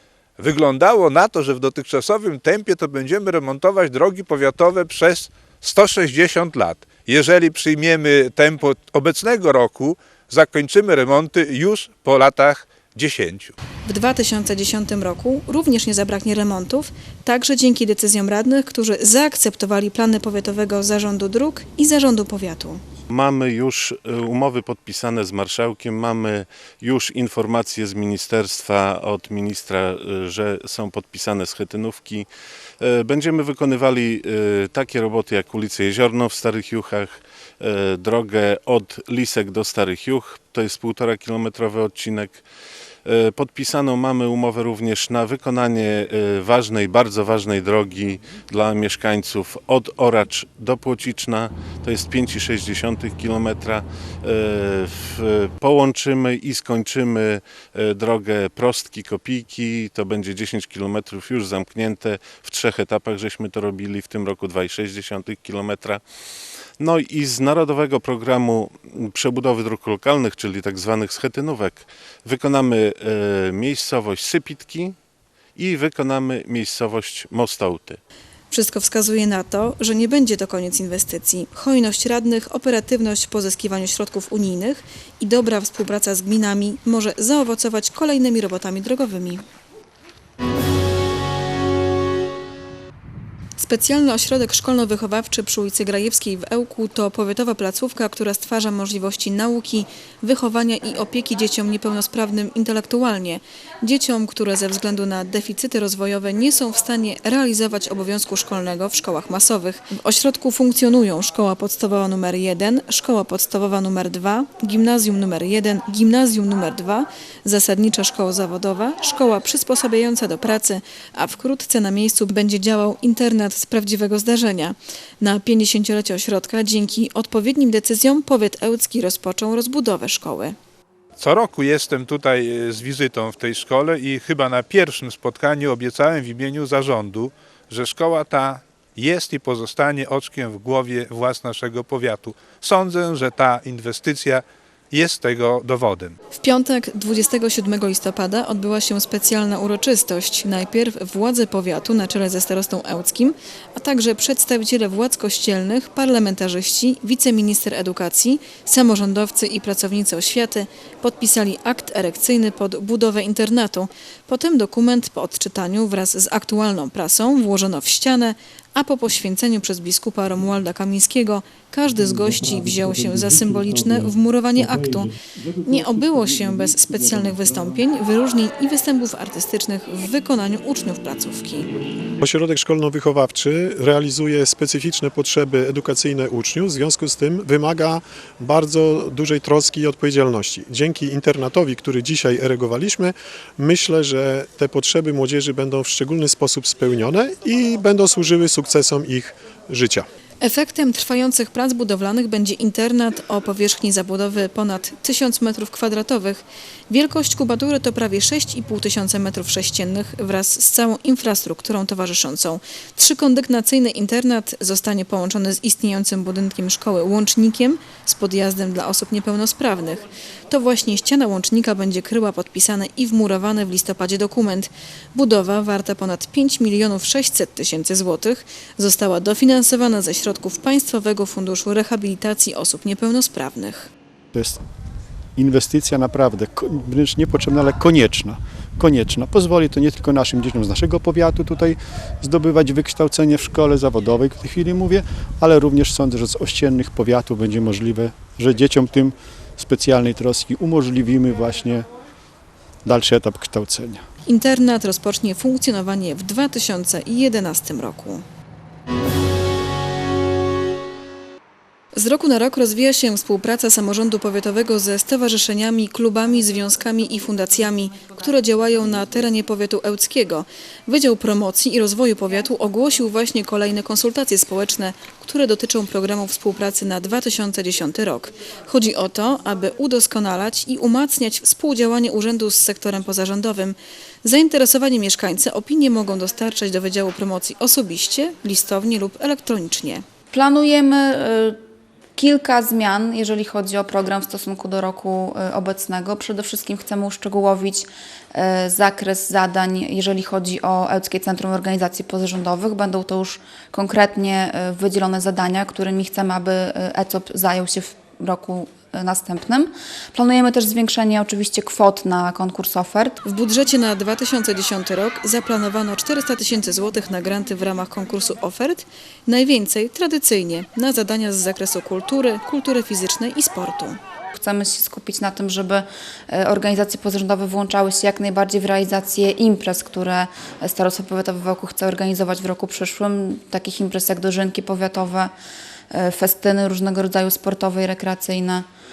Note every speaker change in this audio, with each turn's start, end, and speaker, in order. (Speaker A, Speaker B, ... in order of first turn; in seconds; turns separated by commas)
Speaker A: 0.4-13.5, Speaker B: 13.8-22.8, Speaker C: 23.1-32.3, Speaker C: 32.8-42.4, Speaker C: 43.0-66.0, Speaker C: 66.8-75.0, Speaker C: 75.5-78.0, Speaker B: 78.5-89.4, Speaker B: 93.6-130.6, Speaker A: 131.2-146.2, Speaker B: 146.3-181.7, Speaker D: 182.2-200.1, Speaker B: 200.4-233.9, Speaker E: 234.3-234.6, Speaker E: 235.3-251.9, Speaker E: 252.8-254.0, Speaker B: 254.2-258.2, Speaker B: 261.9-290.0, Speaker F: 290.3-291.6, Speaker F: 292.2-313.2, Speaker B: 313.2-324.0, Speaker F: 324.3-335.3, Speaker F: 335.9-338.6